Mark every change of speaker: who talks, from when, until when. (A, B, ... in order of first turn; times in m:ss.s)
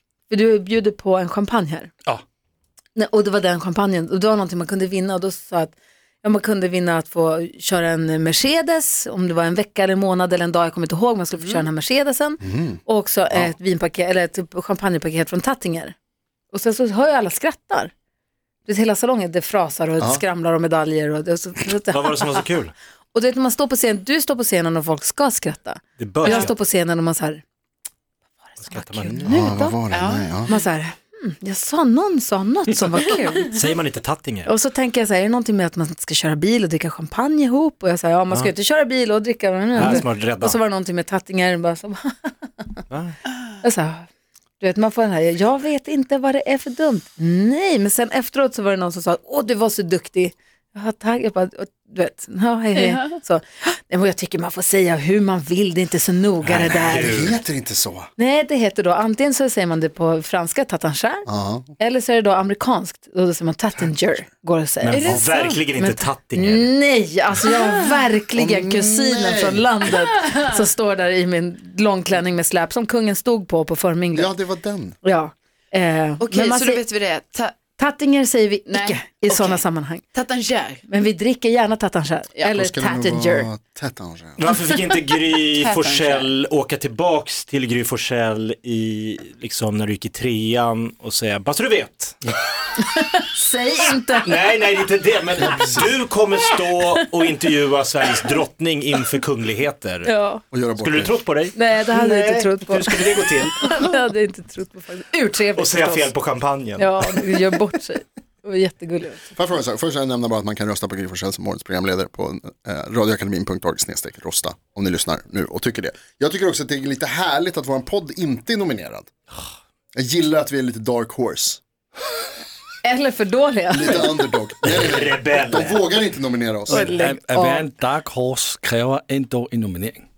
0:00.3-0:01.9 A
0:02.9-0:15.9 A
0:12.4-0:12.8 B
0:16.5-0:17.9 A
0:18.6-0:22.4 A
0:21.9-0:22.7 C
0:23.1-0:27.4 A
0:26.0-0:26.5 C
0:28.4-0:29.8 A
0:28.6-0:30.3 C
0:29.2-0:30.5 B
0:30.5-0:33.6 A
0:33.5-0:34.5 C
0:34.4-0:42.7 A
0:39.8-0:40.6 C
0:42.9-0:43.2 C
0:43.6-0:44.1 A
0:44.6-0:57.3 A
0:52.8-0:53.1 D
0:56.4-0:57.4 C
0:56.7-0:58.1 B
0:58.2-1:01.2 A
1:01.2-1:01.7 B
1:01.8-1:14.3 A
1:04.8-1:06.7 C
1:04.9-1:05.6 D
1:08.3-1:09.9 B
1:14.1-1:15.0 B
1:15.0-1:16.8 A
1:16.2-1:17.5 D
1:17.8-1:20.0 A
1:18.7-1:19.6 D
1:20.1-1:20.8 D
1:20.9-1:23.5 A
1:22.5-1:24.4 B
1:24.4-1:32.3 C
1:25.6-1:26.3 D
1:32.8-1:34.3 A
1:34.2-1:40.1 C
1:35.4-1:36.0 B
1:40.0-1:40.4 A
1:40.5-1:41.2 B
1:40.8-1:43.8 C
1:41.5-1:46.1 A
1:45.6-1:46.9 C
1:46.8-1:49.3 A
1:49.3-1:59.1 B
1:59.9-2:01.6 B
2:02.8-2:04.2 A
2:03.7-2:06.9 B
2:04.6-2:05.8 C
2:06.7-2:07.7 A
2:06.7-2:10.1 E